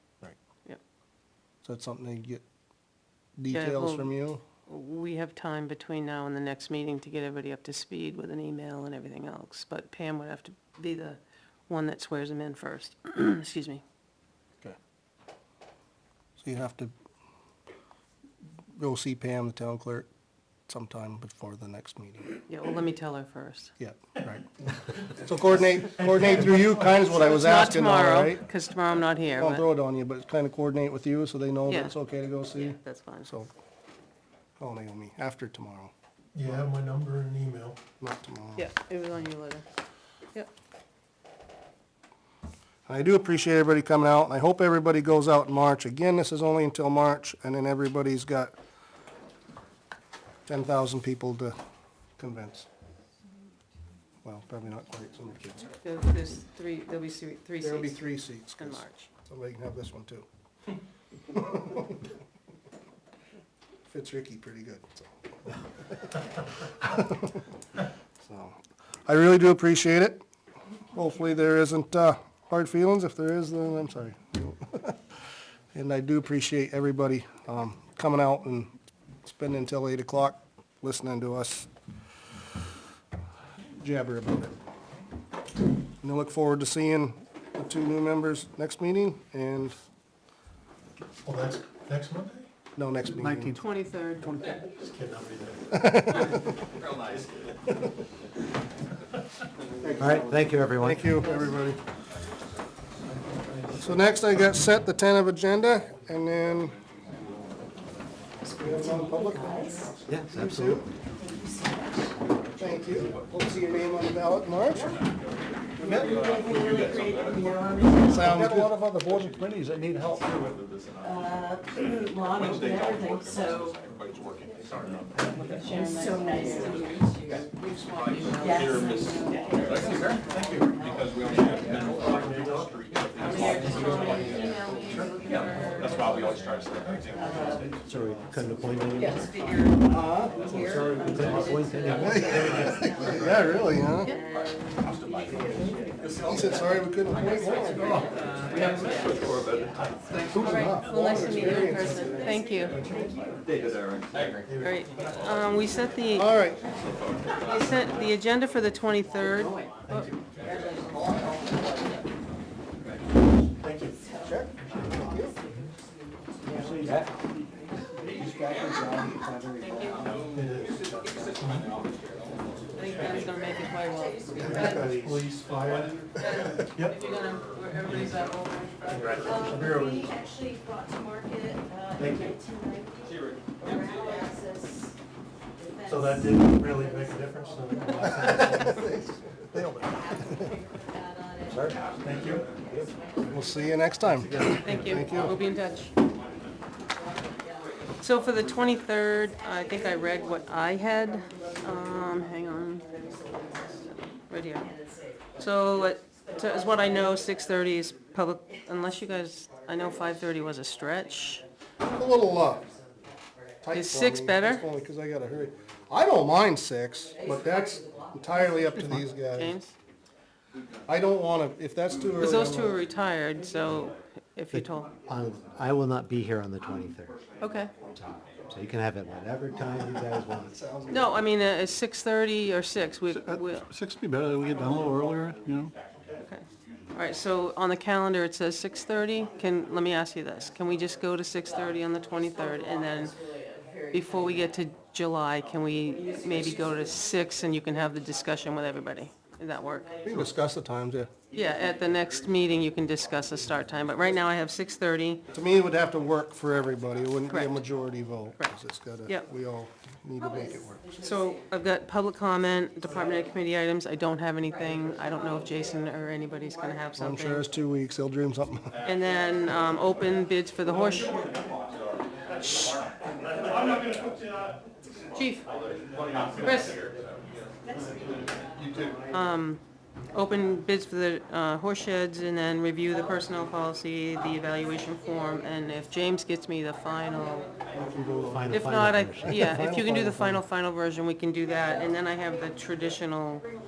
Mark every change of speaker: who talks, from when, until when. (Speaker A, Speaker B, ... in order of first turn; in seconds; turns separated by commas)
Speaker A: 1.6-2.4, Speaker A: 3.4-4.4, Speaker B: 3.5-13.8, Speaker A: 16.4-16.9, Speaker A: 18.7-20.1, Speaker A: 20.7-22.4, Speaker B: 22.5-23.7, Speaker A: 23.8-28.4, Speaker C: 26.1-26.7, Speaker B: 27.0-29.7, Speaker A: 29.4-33.5, Speaker B: 31.7-31.9, Speaker B: 32.5-33.3, Speaker A: 34.6-35.9, Speaker C: 36.3-37.8, Speaker A: 38.0-38.6, Speaker B: 38.5-39.6, Speaker A: 42.9-48.5, Speaker A: 50.5-51.5, Speaker A: 52.2-52.7, Speaker A: 54.2-55.7, Speaker B: 55.8-59.0, Speaker A: 57.6-60.2, Speaker A: 61.3-62.0, Speaker A: 63.9-65.0, Speaker A: 66.6-67.4, Speaker A: 68.2-70.2, Speaker A: 70.9-75.0, Speaker A: 75.7-78.7, Speaker A: 79.2-81.7, Speaker A: 83.7-84.5, Speaker A: 86.0-89.8, Speaker C: 91.2-92.5, Speaker A: 92.8-93.6, Speaker C: 93.2-93.5, Speaker B: 93.5-94.6, Speaker D: 94.3-94.6, Speaker C: 94.4-96.3, Speaker A: 95.8-96.4, Speaker A: 99.8-101.8, Speaker E: 100.0-101.2, Speaker C: 103.5-104.0, Speaker A: 103.8-106.8, Speaker A: 108.5-110.8, Speaker F: 108.7-109.8, Speaker E: 110.1-110.8, Speaker F: 111.4-111.8, Speaker A: 112.6-115.0, Speaker G: 115.8-117.2, Speaker F: 115.9-118.4, Speaker A: 118.0-119.3, Speaker D: 118.3-118.7, Speaker G: 119.2-120.5, Speaker D: 119.5-120.3, Speaker F: 121.2-123.6, Speaker G: 122.3-123.2, Speaker B: 125.3-126.8, Speaker F: 125.6-127.5, Speaker F: 128.3-130.7, Speaker G: 129.7-130.1, Speaker G: 131.3-134.3, Speaker C: 131.3-134.1, Speaker B: 133.2-136.2, Speaker F: 133.3-134.3, Speaker G: 135.9-137.5, Speaker C: 136.8-138.6, Speaker F: 137.2-137.6, Speaker E: 137.8-139.3, Speaker F: 139.0-139.8, Speaker A: 139.9-140.8, Speaker F: 140.4-143.4, Speaker E: 140.5-142.9, Speaker C: 140.5-141.2, Speaker A: 141.9-144.1, Speaker C: 142.3-143.2, Speaker B: 143.9-144.2, Speaker F: 144.0-145.9, Speaker A: 146.0-148.1, Speaker F: 147.4-149.2, Speaker C: 148.0-148.9, Speaker G: 148.9-149.2, Speaker C: 150.1-150.8, Speaker F: 150.2-153.1, Speaker B: 150.3-152.8, Speaker A: 150.3-153.3, Speaker C: 154.5-154.9, Speaker B: 154.6-156.4, Speaker A: 156.1-156.6, Speaker B: 157.4-160.2, Speaker F: 160.4-161.8, Speaker C: 163.6-164.0, Speaker F: 164.0-164.4, Speaker A: 164.2-165.4, Speaker C: 164.6-164.9, Speaker F: 165.0-167.0, Speaker C: 165.4-165.7, Speaker C: 166.5-166.9, Speaker A: 168.1-171.3, Speaker B: 169.6-170.1, Speaker C: 170.3-171.7, Speaker B: 172.8-175.0, Speaker F: 173.9-175.1, Speaker C: 174.4-177.0, Speaker B: 176.1-179.4, Speaker C: 177.7-178.1, Speaker C: 178.8-180.2, Speaker F: 179.2-184.9, Speaker C: 182.0-182.3, Speaker F: 185.6-186.9, Speaker C: 185.8-188.9, Speaker A: 187.9-189.2, Speaker C: 189.5-190.0, Speaker F: 190.0-193.8, Speaker E: 191.5-191.8, Speaker C: 192.0-192.4, Speaker E: 192.6-192.9, Speaker A: 193.2-195.3, Speaker C: 194.0-195.1, Speaker B: 194.6-195.9, Speaker B: 198.0-204.7, Speaker F: 201.2-201.5, Speaker F: 204.7-205.2, Speaker B: 205.3-211.4, Speaker A: 211.8-212.7, Speaker A: 213.6-219.6, Speaker B: 213.7-214.7, Speaker F: 217.2-219.0, Speaker B: 219.3-219.7, Speaker A: 220.8-222.8, Speaker B: 222.2-224.9, Speaker E: 224.5-227.2, Speaker B: 227.4-227.7, Speaker E: 227.9-230.6, Speaker A: 229.5-231.2, Speaker B: 230.9-233.6, Speaker D: 233.3-235.7, Speaker B: 236.2-243.2, Speaker B: 243.9-249.9, Speaker A: 250.0-251.1, Speaker B: 251.3-255.2, Speaker A: 255.3-260.8, Speaker B: 257.3-257.6, Speaker B: 258.4-259.2, Speaker B: 261.0-267.5, Speaker A: 267.0-268.8, Speaker B: 268.8-271.3, Speaker B: 272.4-272.8, Speaker B: 275.1-275.4, Speaker B: 276.4-276.8, Speaker B: 279.1-279.6, Speaker B: 280.1-287.5, Speaker A: 287.7-288.6, Speaker E: 288.3-289.4, Speaker B: 288.5-293.5, Speaker A: 289.2-290.4